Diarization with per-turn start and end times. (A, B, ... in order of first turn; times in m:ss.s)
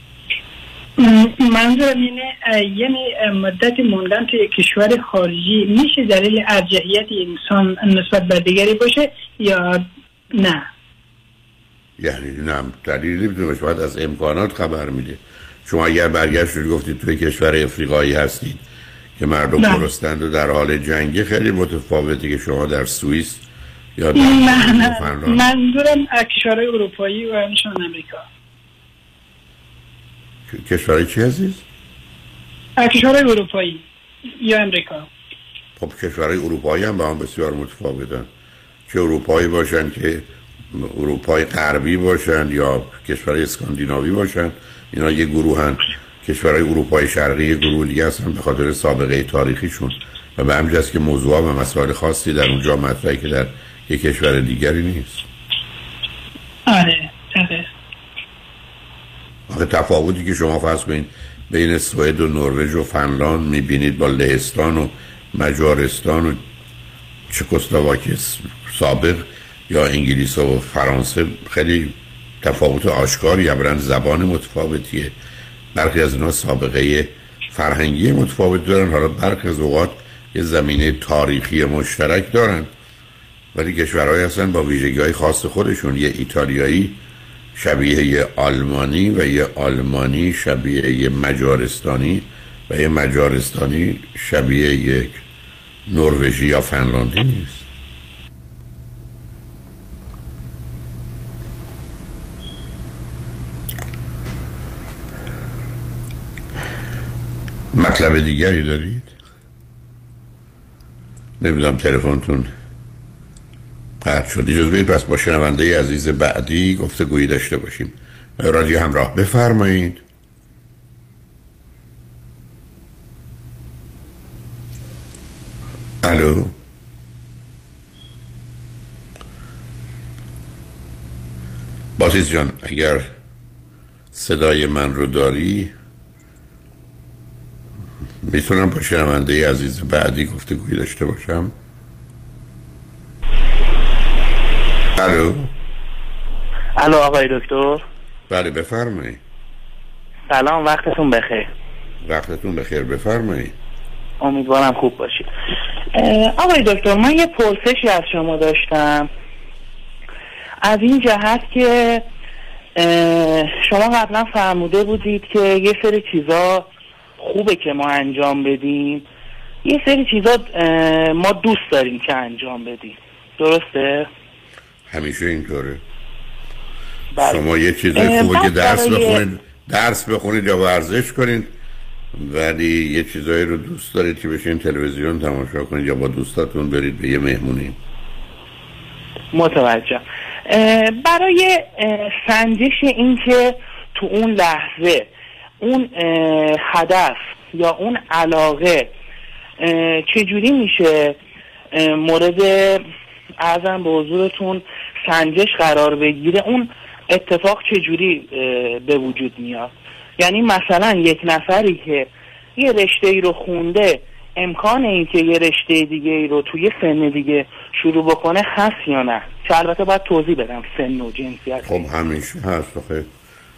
0:01.0-0:09.8 A
0:10.4-0:10.7 A
0:12.0-0:18.6 B
0:19.2-0:23.4 B
0:19.6-0:19.9 A
0:24.0-0:25.5 B
0:24.1-0:28.2 A
0:30.5-0:31.6 B
0:32.8-0:33.8 A
0:34.4-0:35.1 A
0:35.8-0:38.3 B
0:38.9-0:55.2 B
0:56.7-0:57.6 A
0:59.5-1:06.4 B
1:07.3-1:15.1 B
1:15.7-1:22.7 B
1:23.5-1:27.0 B
1:27.6-1:35.2 B
1:35.9-1:37.6 B
1:47.7-1:49.1 B
1:51.4-1:52.5 B
1:54.0-2:00.0 B
2:06.0-2:06.5 B
2:12.0-2:13.1 B
2:14.1-2:15.7 B
2:18.2-2:21.5 B
2:25.0-2:25.5 B
2:26.8-2:27.8 C
2:28.3-2:29.2 B
2:30.3-2:31.5 C
2:32.0-2:33.5 B
2:34.2-2:35.3 C
2:35.9-2:39.1 C
2:40.6-2:42.0 C
2:42.8-2:46.7 C
2:47.2-2:49.0 C
2:49.6-2:54.1 C
2:54.9-2:55.8 B
2:57.2-3:01.5 B
2:57.9-2:59.2 C
3:02.1-3:07.8 B
3:09.3-3:15.1 C
3:15.6-3:18.9 C
3:19.6-3:21.2 C
3:21.7-3:22.8 C
3:23.4-3:41.8 C
3:41.6-3:43.1 B